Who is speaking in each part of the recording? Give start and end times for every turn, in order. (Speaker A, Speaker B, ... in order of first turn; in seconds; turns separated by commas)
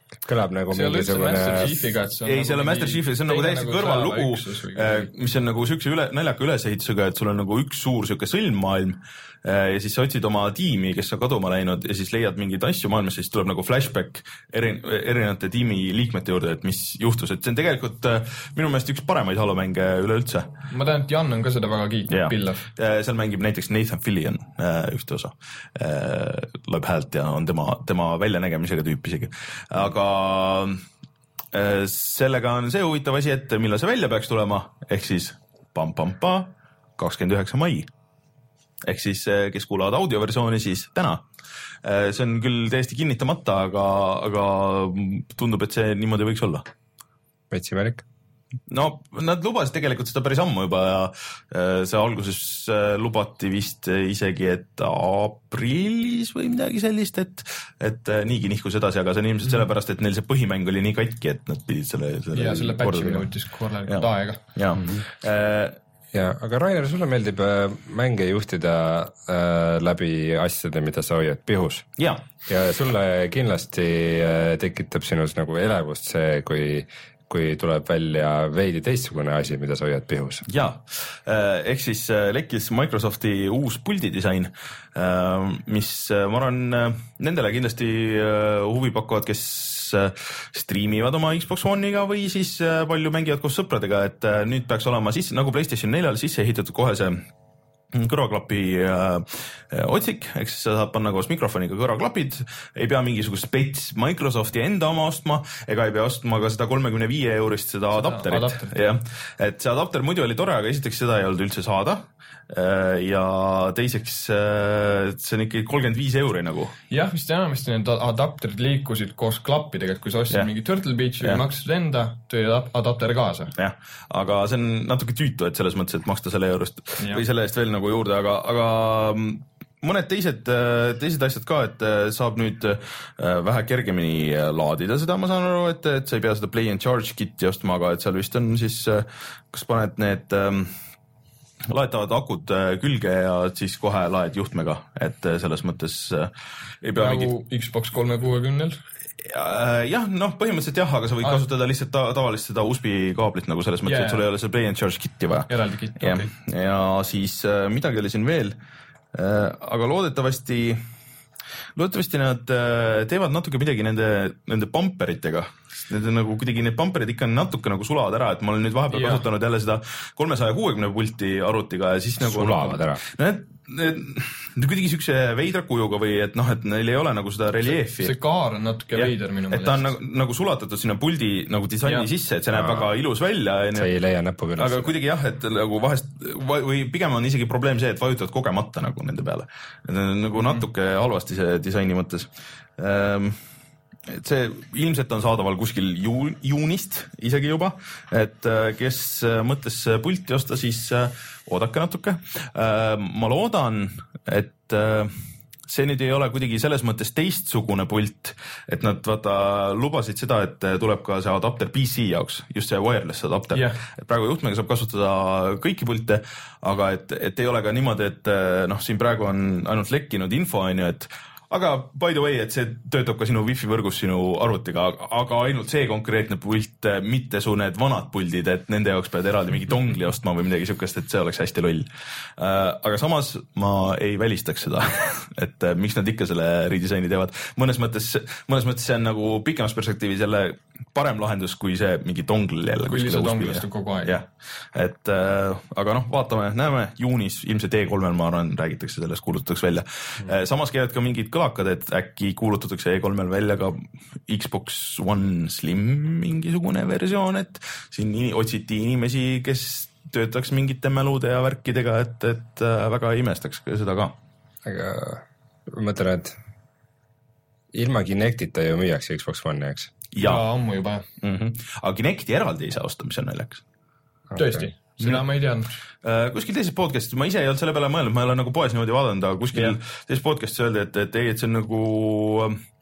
Speaker A: 0.2-1.7, Speaker B: 0.7-5.1, Speaker C: 2.2-20.5, Speaker B: 20.7-22.6, Speaker C: 22.1-30.8, Speaker C: 31.5-37.9, Speaker C: 38.8-41.2, Speaker C: 41.8-46.6, Speaker A: 47.5-48.0, Speaker C: 48.7-63.3, Speaker B: 62.3-64.4, Speaker C: 63.9-65.8, Speaker A: 64.7-65.0, Speaker A: 66.1-71.9, Speaker C: 72.0-72.2, Speaker A: 72.5-80.5, Speaker C: 80.5-97.3, Speaker C: 97.9-116.7, Speaker B: 108.0-108.9, Speaker B: 116.9-123.5, Speaker C: 123.6-140.7, Speaker C: 141.7-147.3, Speaker B: 147.0-148.8, Speaker C: 149.2-158.6, Speaker B: 153.8-154.2, Speaker B: 155.5-156.3, Speaker C: 159.1-160.8, Speaker C: 161.7-178.1, Speaker B: 168.9-169.2, Speaker A: 172.2-173.0, Speaker B: 177.9-179.9, Speaker C: 178.9-183.9, Speaker A: 182.5-182.9, Speaker A: 183.7-184.9, Speaker C: 184.6-193.4, Speaker C: 194.1-205.1, Speaker C: 205.7-264.1, Speaker B: 213.5-213.8, Speaker B: 242.9-244.1, Speaker A: 264.6-266.4, Speaker A: 267.7-269.9, Speaker C: 270.1-270.4, Speaker B: 270.2-271.0, Speaker C: 271.2-273.6, Speaker A: 274.3-274.6, Speaker B: 274.4-275.7, Speaker C: 276.0-282.6